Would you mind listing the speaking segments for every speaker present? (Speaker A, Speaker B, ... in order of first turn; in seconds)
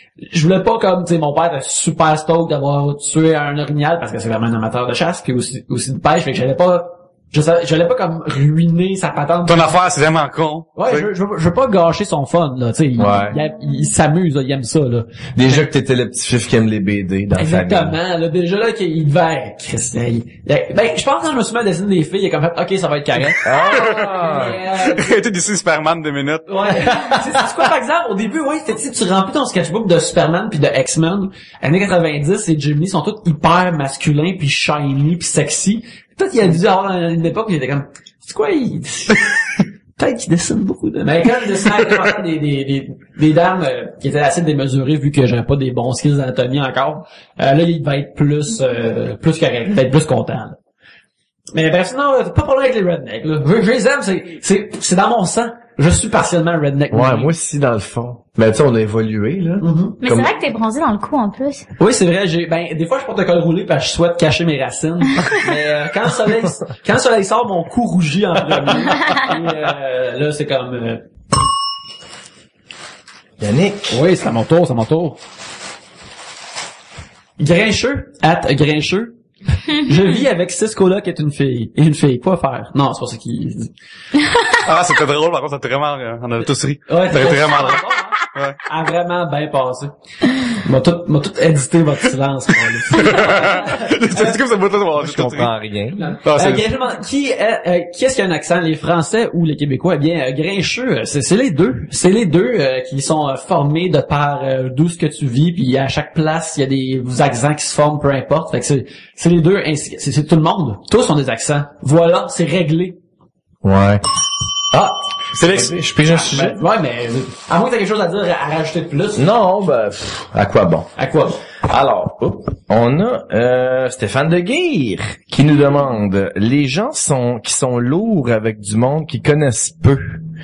Speaker A: 0.2-9.7, 10.8-15.7, 17.4-25.2, 26.5-39.3, 40.0-50.6, 51.5-57.3, 59.6-60.0, 61.8-71.1, 73.9-75.2, 77.4-83.7, 86.9-90.0, 90.5-94.4, 96.0-113.0, 116.1-119.3, 121.0-121.5
Speaker B: 9.5-11.1, 23.6-26.8, 84.6-88.7, 92.8-95.5, 96.2-96.7, 115.3-115.7
Speaker C: 13.0-13.3, 15.3-18.0, 23.4-24.6, 26.9-27.4, 56.9-60.3, 73.4-74.0, 95.0-96.0, 113.6-114.0, 114.7-116.6, 119.2-120.9, 121.6-130.2
Speaker D: 60.0-61.6, 84.2-84.6